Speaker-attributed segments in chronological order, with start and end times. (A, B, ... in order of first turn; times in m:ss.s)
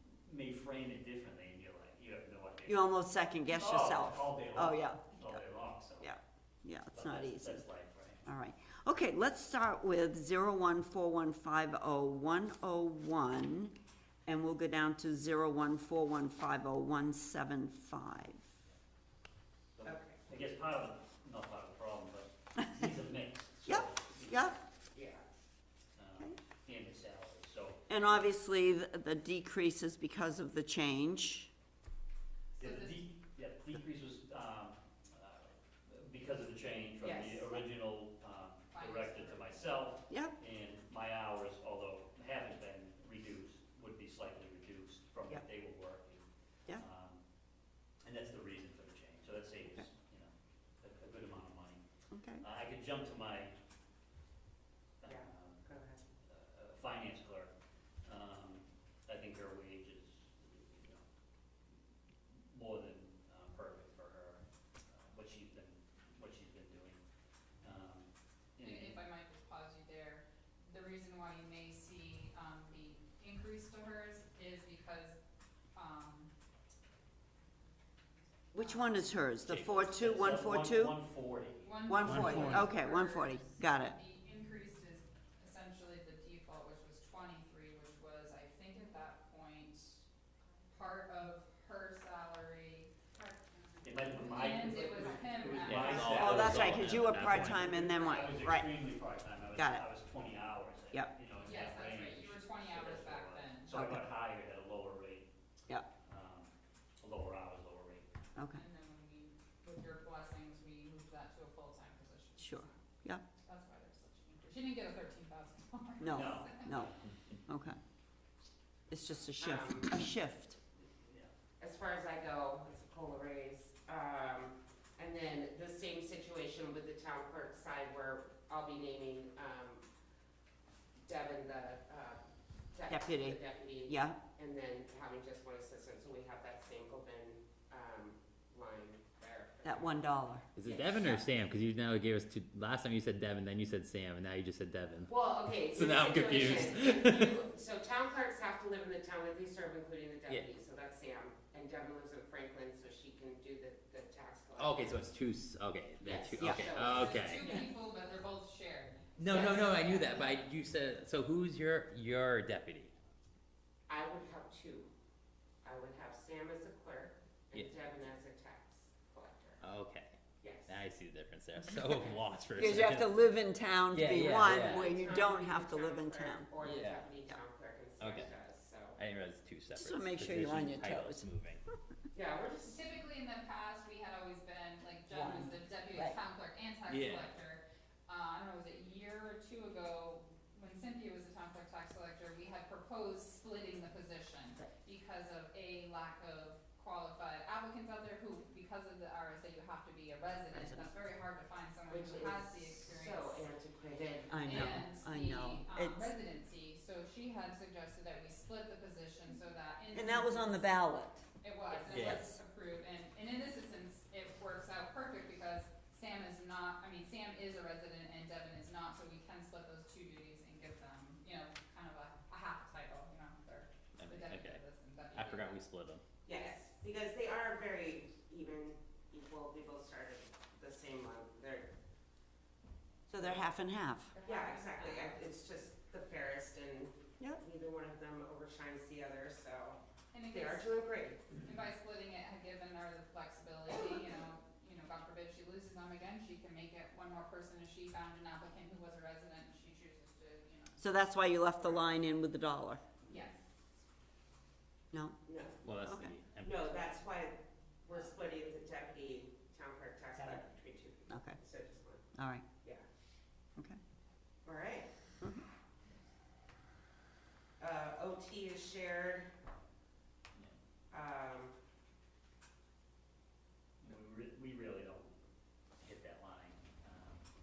0:00.2-0:02.9 A
0:02.7-0:05.4 B
0:03.5-0:06.2 A
0:06.0-0:07.6 B
0:06.9-0:08.2 A
0:08.2-0:13.7 B
0:14.2-0:18.4 B
0:19.7-0:24.6 A
0:19.8-0:20.2 C
0:23.6-0:24.6 B
0:24.9-0:25.2 C
0:26.0-0:28.0 A
0:27.9-0:31.5 B
0:32.5-0:33.0 D
0:32.6-0:46.2 A
0:37.0-0:37.6 C
0:38.7-0:39.6 D
0:40.1-0:40.3 B
0:46.8-0:47.2 A
0:48.0-0:51.8 A
0:52.1-0:52.4 B
0:52.4-0:53.6 A
0:55.0-0:55.7 A
0:55.0-0:56.0 C
0:56.2-0:57.5 A
0:58.0-1:01.0 A
1:02.5-1:07.0 A
1:07.6-1:09.0 A
1:08.6-1:15.2 D
1:15.7-1:16.3 D
1:18.5-1:21.0 B
1:18.6-1:19.1 D
1:19.5-1:19.7 E
1:19.5-1:22.7 A
1:21.6-1:30.0 D
1:21.9-1:24.0 B
1:22.0-1:22.7 E
1:30.7-1:36.7 D
1:33.8-1:45.3 A
1:35.6-1:37.9 E
1:35.9-1:38.7 B
1:39.5-1:39.8 B
1:41.3-1:43.8 D
1:43.7-1:44.0 B
1:46.0-1:48.1 A
1:48.4-1:48.6 B
1:48.5-1:52.7 D
1:52.4-1:53.2 B
1:53.4-1:56.7 D
1:56.0-1:56.9 B
1:56.0-1:57.0 A
1:57.5-1:57.8 B
1:58.9-2:00.6 B
1:59.4-1:59.9 C
2:00.8-2:01.3 A
2:01.6-2:09.8 C
2:11.0-2:12.2 C
2:12.7-2:20.0 C
2:12.9-2:14.2 B
2:19.6-2:20.4 B
2:20.6-2:25.1 E
2:20.6-2:21.3 C
2:25.1-2:35.0 C
2:25.7-2:27.4 E
2:34.6-2:37.6 E
2:36.0-2:37.6 C
2:36.4-2:36.7 B
2:37.0-2:40.5 D
2:39.2-2:42.9 E
2:39.3-2:39.6 C
2:43.9-2:44.9 C
2:45.6-2:49.6 C
2:49.6-2:53.1 E
2:50.4-2:50.8 C
2:51.8-2:52.1 C
2:52.6-2:56.5 B
2:53.9-2:54.9 E
2:54.1-2:59.0 C
2:56.6-2:57.0 E
2:58.0-2:58.3 E
2:59.0-3:01.6 E
2:59.7-3:01.2 B
3:02.1-3:02.8 C
3:02.6-3:23.4 D
3:05.1-3:06.2 B
3:06.9-3:07.3 E
3:20.5-3:20.9 B
3:21.9-3:24.8 C
3:24.3-3:26.1 B
3:24.5-3:30.7 D
3:29.9-3:31.2 B
3:31.4-3:45.6 D
3:31.7-3:32.2 C
3:31.9-3:32.3 E
3:44.0-3:46.0 E
3:46.2-3:51.7 C
3:53.1-3:54.1 B
3:54.1-3:55.3 D
3:54.2-4:01.2 C
4:00.1-4:00.8 D
4:01.4-4:10.8 D
4:10.8-4:12.8 B
4:13.1-4:13.4 D
4:14.9-4:15.2 B
4:15.2-4:15.6 C
4:15.6-4:16.8 E
4:15.8-4:16.1 B
4:16.4-4:22.0 C
4:21.1-4:21.4 B
4:22.1-4:22.4 B
4:24.4-4:24.9 C
4:27.6-4:29.3 C
4:30.9-4:31.5 C
4:33.8-4:35.2 A
4:35.8-4:37.2 A